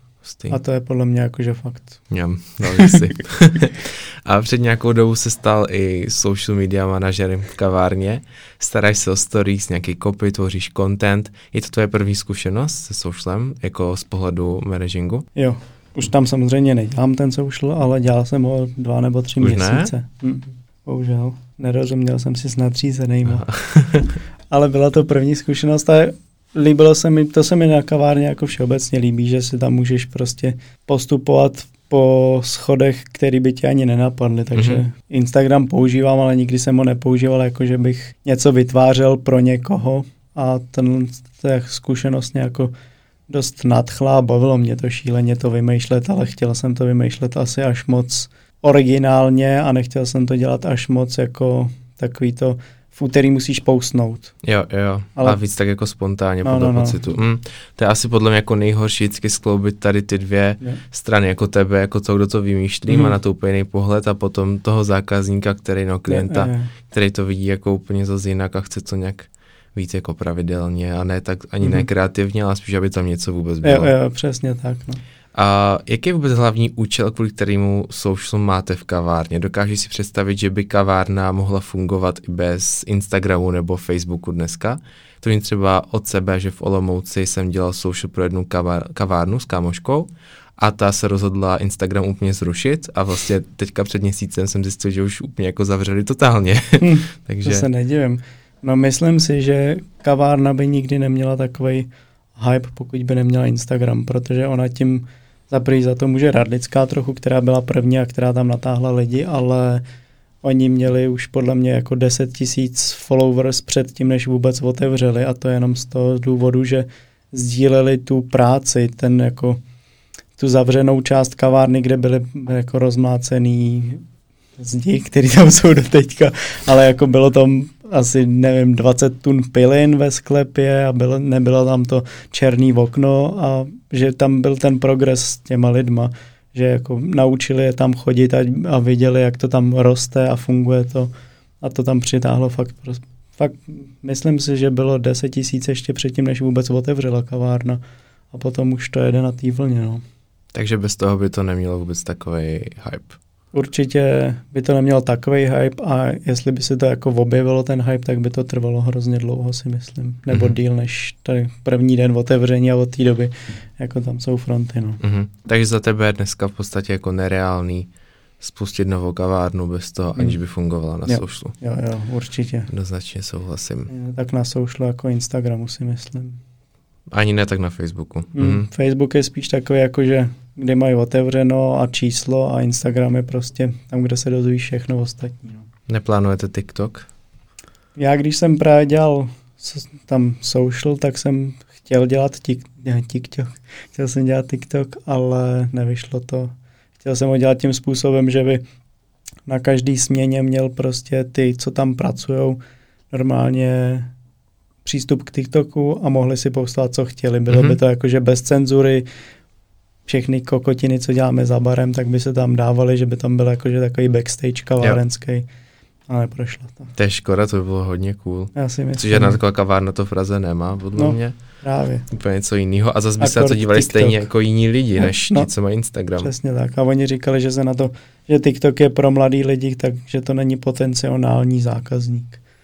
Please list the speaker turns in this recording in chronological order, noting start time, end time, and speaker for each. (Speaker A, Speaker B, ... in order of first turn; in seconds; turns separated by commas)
Speaker A: 0.2-0.6, Speaker B: 0.5-2.0, Speaker A: 2.1-15.3, Speaker B: 2.7-3.0, Speaker B: 15.3-23.4, Speaker A: 19.4-19.9, Speaker A: 23.3-24.2, Speaker B: 24.5-42.7, Speaker A: 34.5-34.8, Speaker B: 43.3-54.3, Speaker A: 54.4-73.9, Speaker B: 56.4-57.1, Speaker B: 62.9-63.1, Speaker B: 66.1-66.7, Speaker B: 73.6-75.0, Speaker A: 75.3-97.7, Speaker B: 96.8-109.8, Speaker B: 110.4-119.6, Speaker B: 120.4-124.0, Speaker B: 124.6-147.8, Speaker B: 148.3-150.0, Speaker A: 150.5-153.2, Speaker B: 153.5-165.0, Speaker A: 160.3-160.6, Speaker A: 165.0-167.9, Speaker A: 168.4-171.5, Speaker B: 171.1-172.7, Speaker A: 172.7-173.9, Speaker B: 173.9-176.4, Speaker A: 177.1-178.7, Speaker B: 178.3-185.6, Speaker A: 185.9-187.1, Speaker B: 187.9-198.6, Speaker B: 199.4-202.6, Speaker B: 203.1-204.1, Speaker B: 204.8-209.0, Speaker A: 207.5-207.8, Speaker B: 210.1-215.4, Speaker B: 216.1-216.9, Speaker A: 216.9-221.3, Speaker B: 218.5-219.4, Speaker B: 220.9-222.1, Speaker A: 222.1-226.3, Speaker B: 223.2-224.3, Speaker B: 225.0-225.5, Speaker B: 226.2-232.4